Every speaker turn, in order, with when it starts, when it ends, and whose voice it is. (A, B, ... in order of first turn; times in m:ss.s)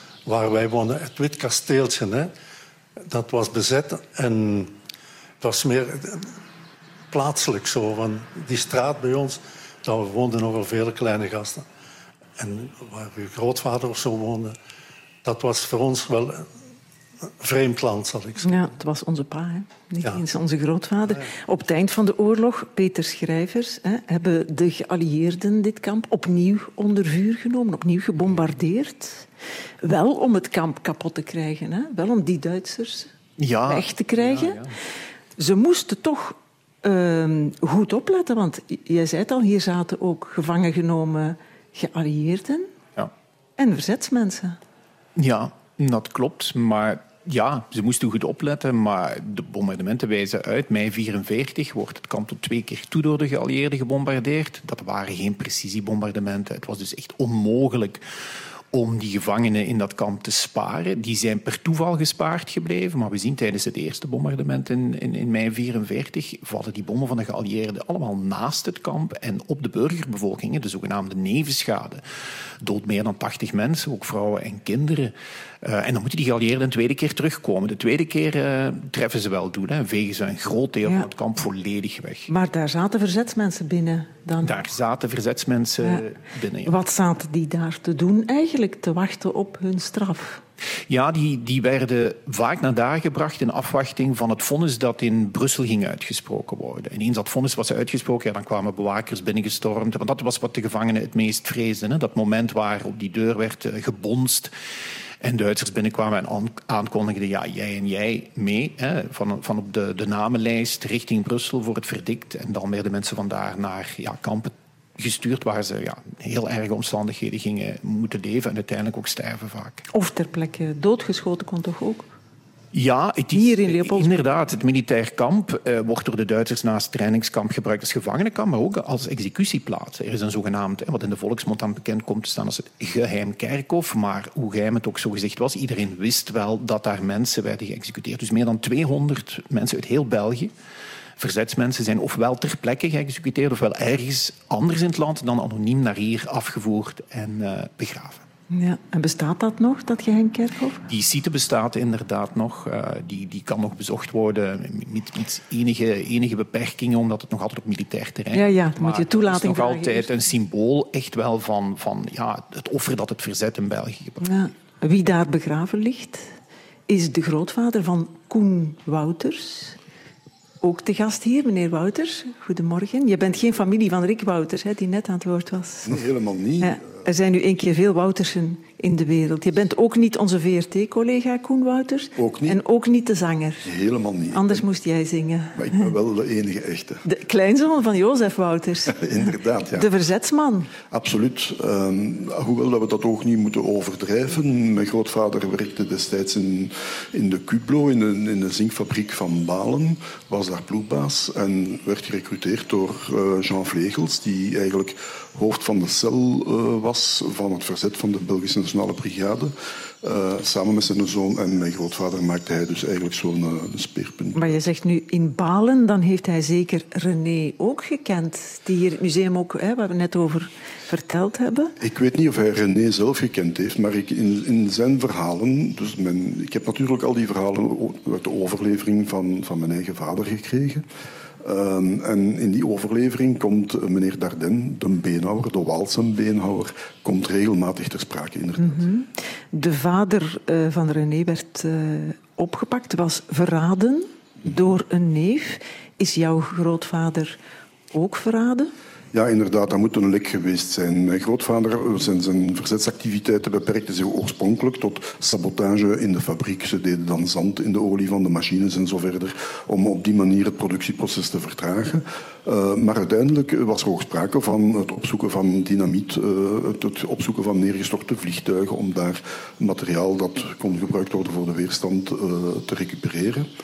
0:00.2-0:02.3 A
0:03.0-0:04.7 A
0:05.4-0:06.3 A
0:07.1-0:11.6 A
0:12.4-0:14.5 A
0:15.2-0:16.5 A
0:17.4-0:18.7 A
0:18.4-0:29.3 B
0:29.8-0:33.1 B
0:33.4-0:34.7 C
0:33.7-0:34.6 B
0:35.4-0:42.7 B
0:43.6-0:44.6 B
0:45.2-0:58.0 C
0:58.7-1:12.0 C
1:12.6-1:22.3 C
1:22.3-1:24.6 B
1:24.4-1:26.7 C
1:26.6-1:30.4 B
1:30.9-1:44.5 C
1:45.2-1:59.8 C
1:59.9-2:02.1 B
2:02.7-2:20.5 C
2:03.3-2:04.2 B
2:21.2-2:28.2 C
2:28.5-2:30.8 B
2:30.9-2:44.2 C
2:38.3-2:40.1 B
2:44.2-2:46.3 B
2:46.9-2:49.8 B
2:50.6-2:56.0 B
2:55.8-2:56.9 D
2:56.6-3:03.7 B
3:02.2-3:02.6 D
3:03.6-3:04.6 D
3:04.3-3:05.8 B
3:05.5-3:07.0 D
3:07.0-3:09.0 B
3:08.9-3:09.9 D
3:09.7-3:10.7 B
3:10.9-3:34.6 D
3:34.3-3:41.7 B
3:41.8-3:50.8 D
3:51.4-3:58.8 D
3:58.6-4:07.4 B
4:07.9-4:08.7 B
4:09.1-4:33.5 D